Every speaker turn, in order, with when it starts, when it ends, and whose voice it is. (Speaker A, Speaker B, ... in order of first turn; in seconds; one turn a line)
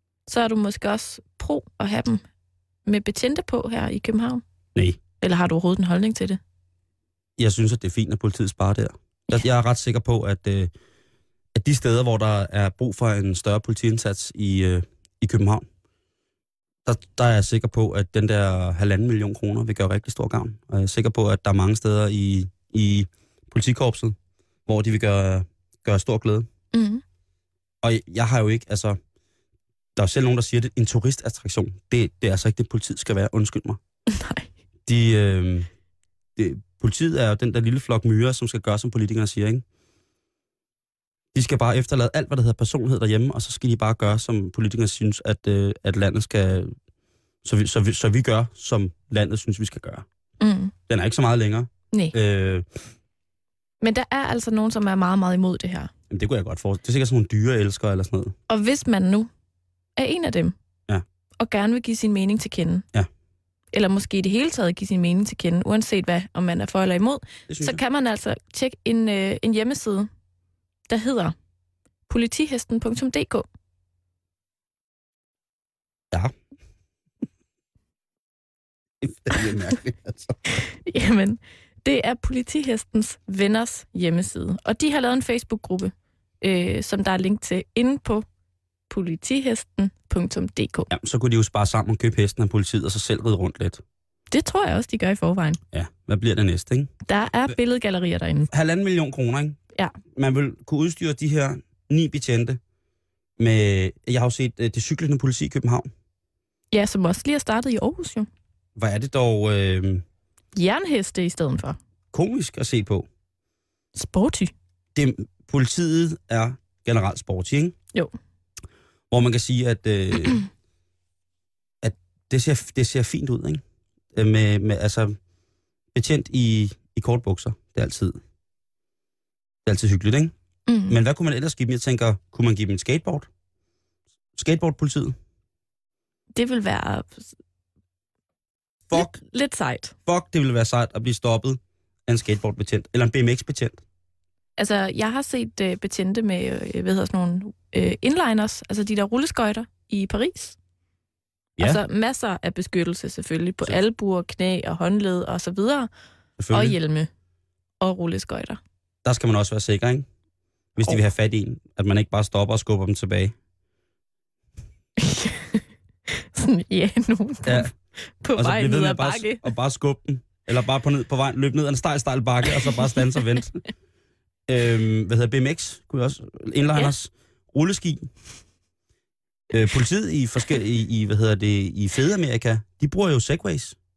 Speaker A: 0.3-2.2
Speaker A: 2.9-4.4
Speaker B: 4.8-5.0
Speaker A: 5.2-6.4
Speaker B: 7.4-10.7
Speaker B: 11.6-15.7
Speaker B: 16.9-26.5
Speaker A: 26.7-27.0
Speaker B: 27.8-29.0
Speaker B: 30.0-33.8
Speaker A: 34.1-34.5
Speaker B: 34.9-35.7
Speaker B: 36.4-39.6
Speaker B: 41.3-46.7
Speaker B: 47.4-50.0
Speaker A: 50.4-50.7
Speaker B: 50.9-52.6
Speaker A: 53.8-55.9
Speaker B: 56.1-58.3
Speaker A: 58.5-59.3
Speaker A: 60.0-60.5
Speaker A: 61.4-62.8
Speaker A: 63.7-70.1
Speaker B: 67.5-67.8
Speaker A: 70.9-71.3
Speaker A: 72.1-73.5
Speaker B: 79.0-80.4
Speaker A: 80.5-88.2
Speaker A: 88.9-90.9
Speaker B: 90.9-93.8
Speaker A: 94.3-95.6
Speaker B: 95.7-96.9
Speaker A: 97.1-98.5
Speaker B: 98.5-99.6
Speaker B: 100.1-102.6
Speaker B: 103.4-105.9
Speaker A: 106.7-108.3
Speaker B: 108.8-110.0
Speaker A: 110.5-111.8
Speaker B: 112.1-113.1
Speaker A: 114.0-114.5
Speaker B: 115.0-117.8
Speaker B: 119.1-120.4
Speaker B: 121.8-123.6
Speaker B: 124.1-125.2
Speaker B: 125.9-128.2
Speaker B: 129.7-130.3
Speaker A: 130.7-131.0
Speaker B: 130.9-133.3
Speaker B: 134.4-135.2
Speaker A: 136.4-137.3
Speaker B: 138.9-139.2
Speaker A: 138.9-139.9
Speaker B: 140.1-143.8
Speaker A: 144.6-150.6
Speaker A: 151.6-155.9
Speaker B: 156.4-156.8
Speaker A: 156.5-157.1
Speaker A: 157.8-158.6
Speaker B: 159.0-160.1
Speaker B: 160.8-163.3
Speaker A: 165.0-169.4
Speaker B: 167.5-167.7
Speaker B: 168.4-173.6
Speaker B: 174.5-178.1
Speaker B: 179.5-183.8